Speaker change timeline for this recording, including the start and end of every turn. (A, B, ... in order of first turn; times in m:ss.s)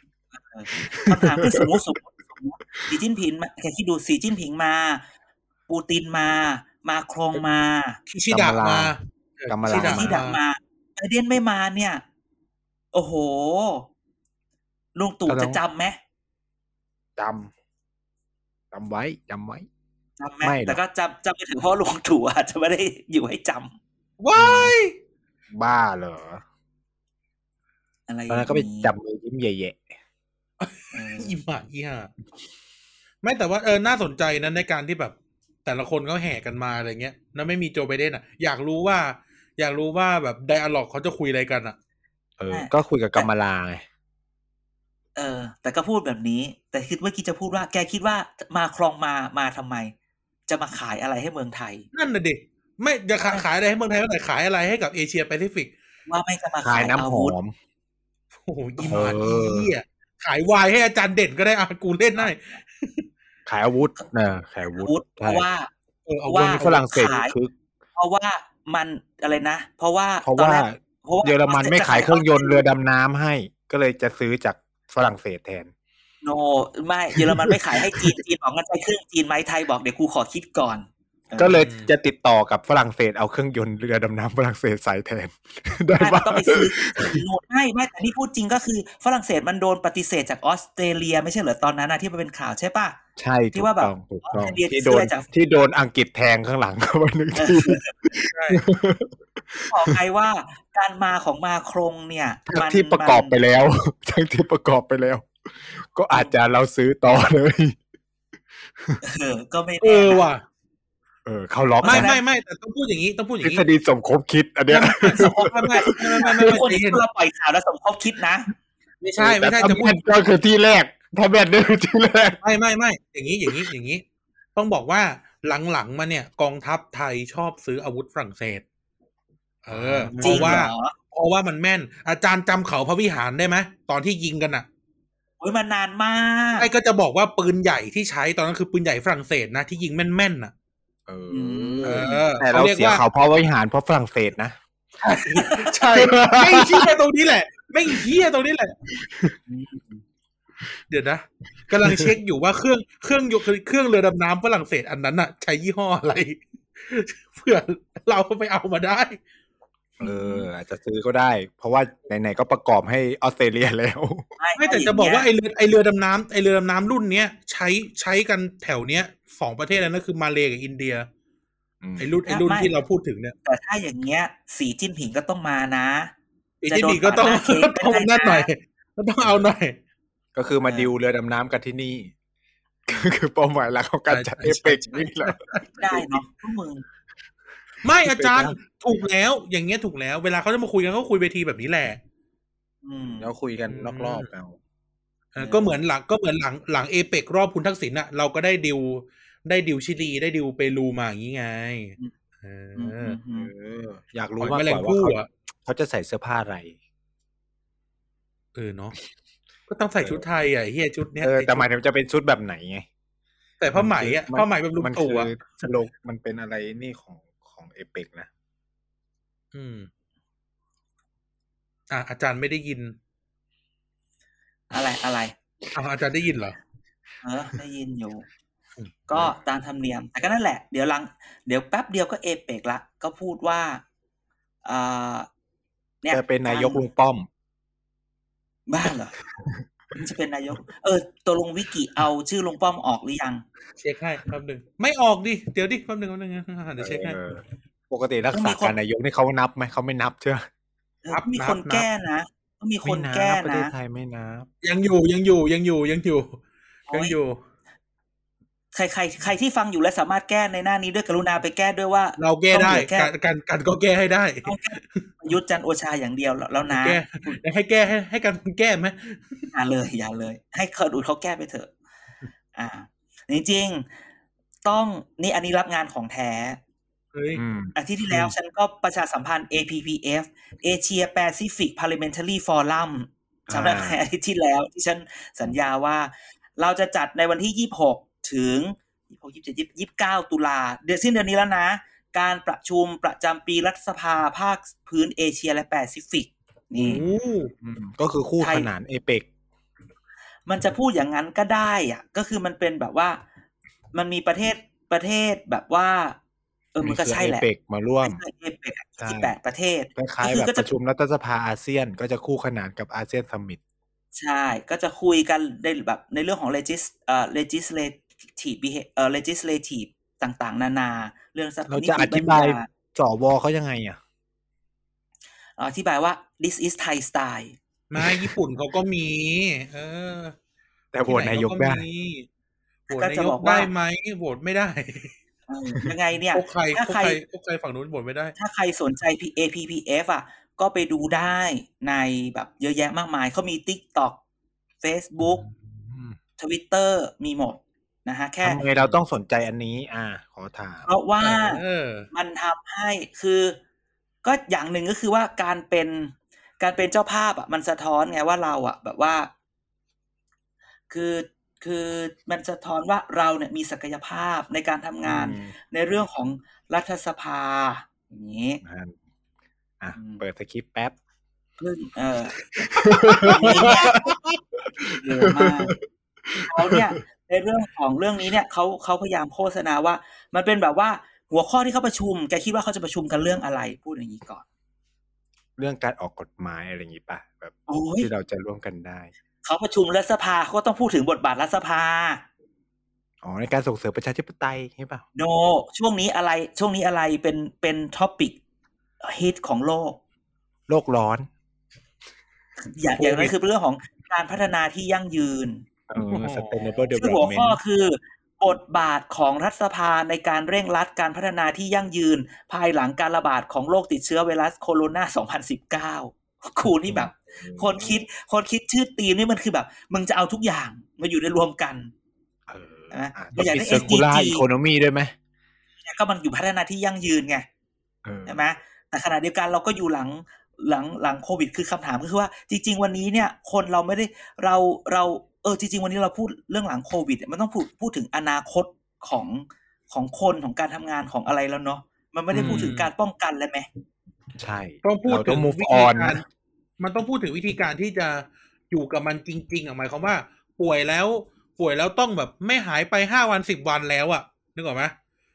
0:00.3-0:05.0 A
0:00.8-0:01.8 B
0:05.7-0:08.0 A
0:08.1-0:10.4 C
0:08.3-0:08.9 B
0:09.5-0:10.2 B
0:09.7-0:12.0 A
0:12.9-0:13.9 A
0:15.0-0:16.0 A
0:15.3-0:15.6 B
0:17.2-0:17.5 B
0:18.7-0:19.7 B
0:20.2-0:23.7 A
0:20.4-0:20.8 B
0:24.2-0:24.9 C
0:24.4-0:24.7 B
0:24.4-0:24.7 A
0:25.5-0:26.4 B
0:28.1-0:28.9 A
0:28.3-0:29.8 B
0:30.6-0:32.1 C
0:30.9-0:31.3 A
0:33.2-0:41.8 C
0:42.4-0:43.8 B
0:42.5-0:43.3 A
0:45.2-0:49.9 A
0:50.5-0:51.8 A
0:51.9-0:55.7 C
0:56.1-0:57.4 A
0:56.6-0:57.5 B
0:58.4-1:03.0 C
0:58.9-0:59.7 B
1:02.2-1:02.6 A
1:03.4-1:05.4 B
1:04.7-1:05.7 A
1:06.0-1:06.8 C
1:06.3-1:07.3 A
1:06.6-1:07.5 B
1:08.0-1:12.6 A
1:10.2-1:15.7 B
1:16.2-1:21.7 A
1:17.2-1:18.1 B
1:21.4-1:27.2 B
1:21.5-1:21.9 C
1:26.0-1:33.0 A
1:33.2-1:40.0 B
1:33.5-1:35.3 A
1:37.3-1:38.1 A
1:38.3-1:38.6 C
1:39.7-1:43.4 A
1:42.5-1:47.8 B
1:46.1-1:46.4 A
1:48.7-1:49.0 B
1:49.0-1:50.3 A
1:49.8-1:50.4 C
1:51.3-1:52.1 B
1:51.8-1:53.6 C
1:51.8-1:52.2 A
1:53.4-1:56.5 B
1:54.7-1:57.0 C
1:55.1-1:58.5 A
1:59.0-2:00.0 C
1:59.2-2:02.4 B
2:02.4-2:04.0 C
2:04.6-2:08.6 C
2:09.6-2:14.7 C
2:09.7-2:10.6 B
2:10.2-2:11.0 A
2:15.4-2:16.7 A
2:16.6-2:20.5 C
2:21.1-2:24.6 B
2:21.3-2:22.2 A
2:21.8-2:23.0 C
2:25.0-2:28.8 C
2:25.3-2:25.8 A
2:26.0-2:26.9 B
2:29.0-2:29.3 B
2:29.5-2:30.0 A
2:30.9-2:39.2 C
2:31.8-2:32.1 B
2:40.0-2:40.5 A
2:40.0-2:44.3 B
2:44.4-2:45.3 A
2:44.6-2:51.1 C
2:51.8-2:52.2 B
2:52.0-2:53.3 C
2:52.3-2:52.7 A
2:53.4-2:56.1 A
2:56.6-2:59.8 C
2:56.7-2:58.5 A
3:00.3-3:02.1 B
3:00.6-3:00.9 A
3:02.9-3:05.4 B
3:04.1-3:06.0 C
3:05.8-3:06.8 A
3:07.8-3:12.0 C
3:08.0-3:08.6 B
3:12.8-3:13.3 A
3:13.2-3:14.6 B
3:13.7-3:14.3 C
3:15.3-3:23.2 C
3:15.4-3:15.8 A
3:22.8-3:23.5 A
3:23.4-3:26.8 B
3:24.4-3:25.3 C
3:28.6-3:29.0 C
3:29.7-3:31.6 C
3:31.2-3:32.9 B
3:33.6-3:35.4 C
3:33.7-3:38.3 B
3:39.5-3:39.9 C
3:41.9-3:43.0 C
3:44.7-3:45.3 A
3:45.7-3:46.6 C
3:47.2-3:48.3 A
3:49.1-3:53.8 A
3:49.1-3:49.4 B
3:54.6-3:55.3 A
3:56.0-3:56.8 A
3:56.1-3:57.3 B
3:58.7-3:59.2 A
4:00.0-4:03.4 A
4:03.8-4:07.2 C
4:06.8-4:10.4 B
4:08.3-4:08.8 A
4:11.0-4:13.7 A
4:11.1-4:11.9 C
4:12.8-4:14.5 B
4:14.6-4:17.4 C
4:16.9-4:17.2 A
4:18.7-4:23.1 A
4:22.2-4:25.0 C
4:24.4-4:27.4 A
4:26.7-4:29.4 C
4:29.5-4:31.7 A
4:32.6-4:33.9 A
4:34.7-4:36.6 A
4:37.1-4:37.4 C
4:37.3-4:38.3 B
4:37.8-4:57.0 A
4:43.5-4:44.0 B
4:56.8-4:57.1 B
4:56.8-4:57.5 C
4:57.6-4:59.3 B
4:58.4-4:58.7 A
5:00.5-5:03.2 A
5:03.9-5:06.2 A
5:06.7-5:07.4 A
5:06.8-5:08.2 B
5:08.0-5:10.7 A
5:09.0-5:09.3 B
5:10.0-5:13.6 B
5:14.1-5:22.7 A
5:21.7-5:24.0 B
5:25.6-5:27.6 A
5:27.9-5:30.3 C
5:28.0-5:28.3 B
5:30.9-5:31.8 B
5:31.1-5:32.3 C
5:32.9-5:35.1 C
5:32.9-5:33.7 A
5:35.5-5:37.2 A
5:36.3-5:38.3 C
5:38.4-5:44.2 A
5:44.8-5:45.4 A
5:45.2-5:46.2 B
5:46.4-5:48.6 A
5:48.4-5:50.9 B
5:50.8-5:53.6 A
5:51.2-5:52.1 C
5:54.2-5:59.3 A
6:00.9-6:08.6 A
6:05.0-6:05.5 B
6:08.6-6:09.0 B
6:09.8-6:11.0 B
6:09.9-6:10.2 A
6:11.6-6:14.0 A
6:12.7-6:14.1 B
6:13.2-6:14.4 C
6:14.8-6:16.8 B
6:14.9-6:15.8 A
6:16.4-6:24.4 A
6:25.6-6:29.1 B
6:27.7-6:28.1 A
6:29.4-6:32.2 A
6:33.2-6:35.0 B
6:35.2-6:38.4 A
6:39.0-6:40.0 A
6:40.7-6:41.3 B
6:42.7-6:45.7 A
6:43.0-6:43.3 C
6:45.9-6:47.6 B
6:46.0-6:46.7 C
6:47.0-7:01.9 A
6:56.9-6:58.0 B
7:02.5-7:05.1 B
7:02.9-7:04.4 A
7:05.8-7:07.4 A
7:08.0-7:08.4 B
7:08.3-7:23.7 A
7:22.3-7:22.7 B
7:22.3-7:22.9 C
7:24.4-7:26.2 B
7:24.8-7:26.2 C
7:26.8-7:35.0 C